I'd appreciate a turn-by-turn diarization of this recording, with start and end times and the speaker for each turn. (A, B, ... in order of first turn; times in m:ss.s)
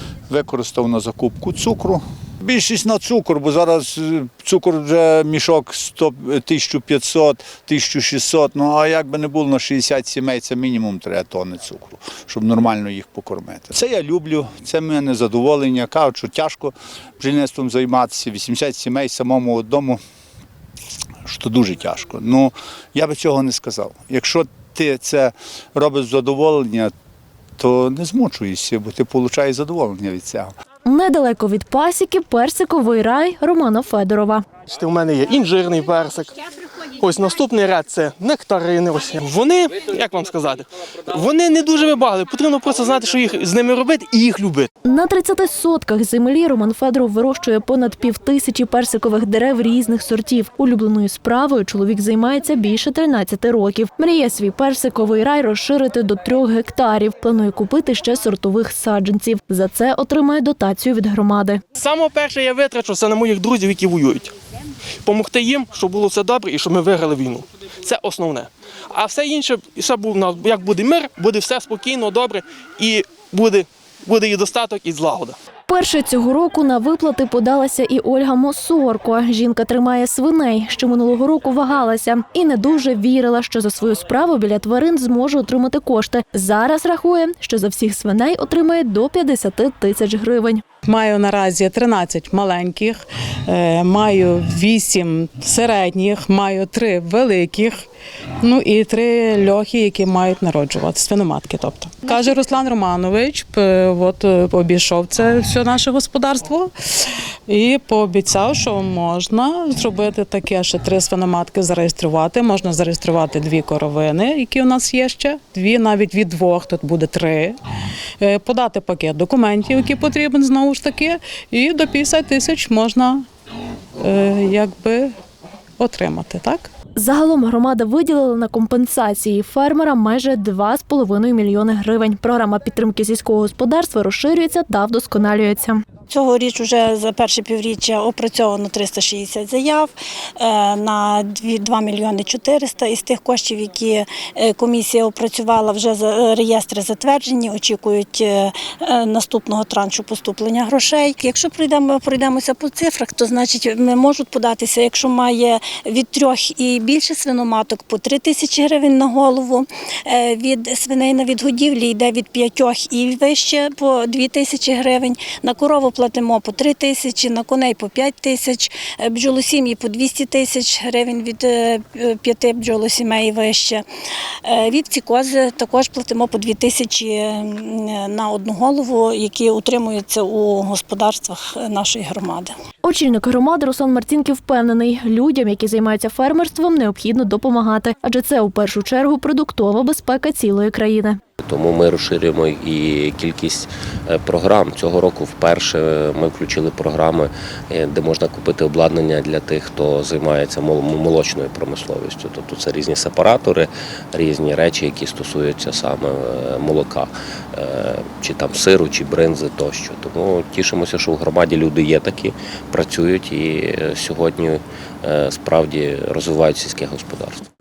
0:00.3-0:20.0 A
0:21.2-0:26.9 A
0:27.6-0:30.5 A
0:30.8-0:34.4 B
0:34.7-0:36.4 C
0:37.0-0:44.7 C
0:44.8-1:01.6 B
1:01.8-1:04.3 C
1:05.0-1:15.4 C
1:15.7-1:30.6 B
1:30.9-1:32.9 D
1:33.5-1:37.7 D
1:38.4-1:57.5 D
1:58.2-2:03.2 D
2:04.0-2:05.1 D
2:05.8-2:06.7 D
2:07.0-2:15.8 B
2:16.1-2:53.8 E
2:54.4-3:02.5 E
3:02.8-3:11.2 B
3:11.4-3:37.4 F